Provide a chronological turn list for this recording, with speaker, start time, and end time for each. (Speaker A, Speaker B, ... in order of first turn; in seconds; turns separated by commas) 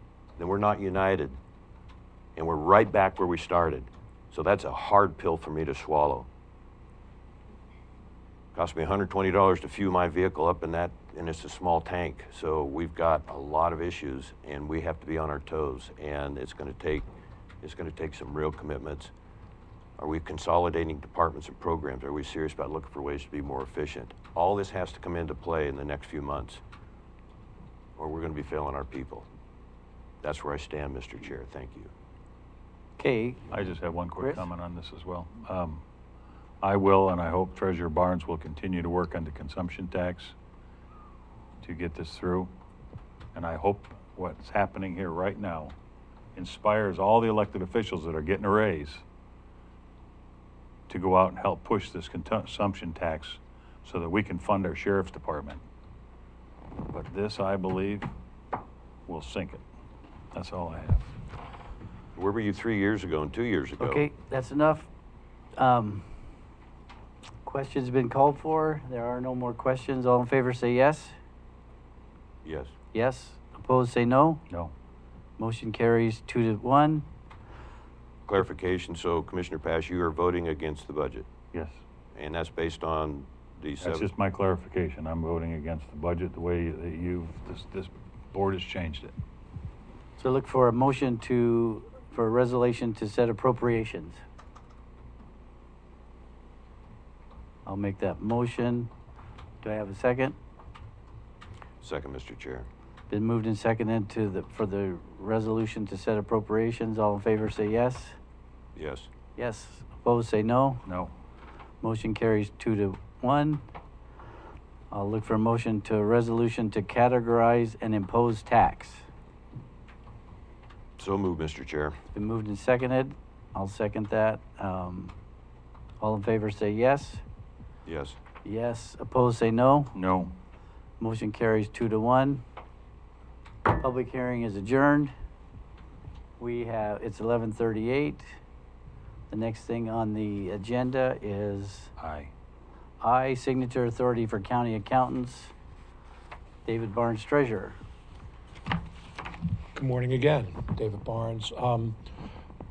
Speaker A: 0.4-1.4, Speaker A: 2.4-6.3, Speaker A: 8.6-17.1, Speaker A: 17.6-19.1, Speaker A: 20.0-26.6, Speaker A: 28.0-29.3, Speaker A: 30.2-31.9, Speaker B: 33.0-33.6, Speaker C: 33.5-35.8, Speaker B: 34.2-34.5, Speaker C: 36.6-40.4, Speaker C: 41.6-42.5, Speaker C: 43.3-45.8, Speaker C: 46.4-49.0, Speaker C: 50.9-55.6, Speaker C: 56.9-58.1, Speaker C: 59.1-59.6, Speaker C: 60.3-61.1, Speaker A: 62.2-64.1, Speaker B: 63.8-64.9, Speaker B: 65.6-66.1, Speaker B: 67.5-71.2, Speaker A: 72.4-72.8, Speaker B: 72.9-74.4, Speaker B: 75.4-77.1, Speaker A: 78.3-81.3, Speaker C: 81.5-81.8, Speaker A: 82.1-84.1, Speaker C: 83.8-89.2, Speaker B: 90.2-94.2, Speaker B: 97.7-98.9, Speaker B: 99.6-100.4, Speaker A: 101.8-102.7, Speaker B: 103.1-108.2, Speaker A: 108.8-109.1, Speaker B: 109.4-110.8, Speaker C: 110.9-111.1, Speaker B: 111.8-113.6, Speaker B: 114.9-119.1, Speaker A: 121.0-122.0, Speaker B: 122.1-125.1, Speaker B: 126.0-127.2, Speaker A: 127.9-128.2, Speaker B: 128.4-129.9, Speaker C: 129.9-130.4, Speaker B: 131.0-132.4, Speaker B: 133.7-135.1, Speaker B: 136.4-138.3, Speaker B: 139.3-141.9, Speaker C: 142.0-142.3, Speaker B: 143.0-145.5, Speaker B: 146.7-147.8, Speaker D: 149.7-152.0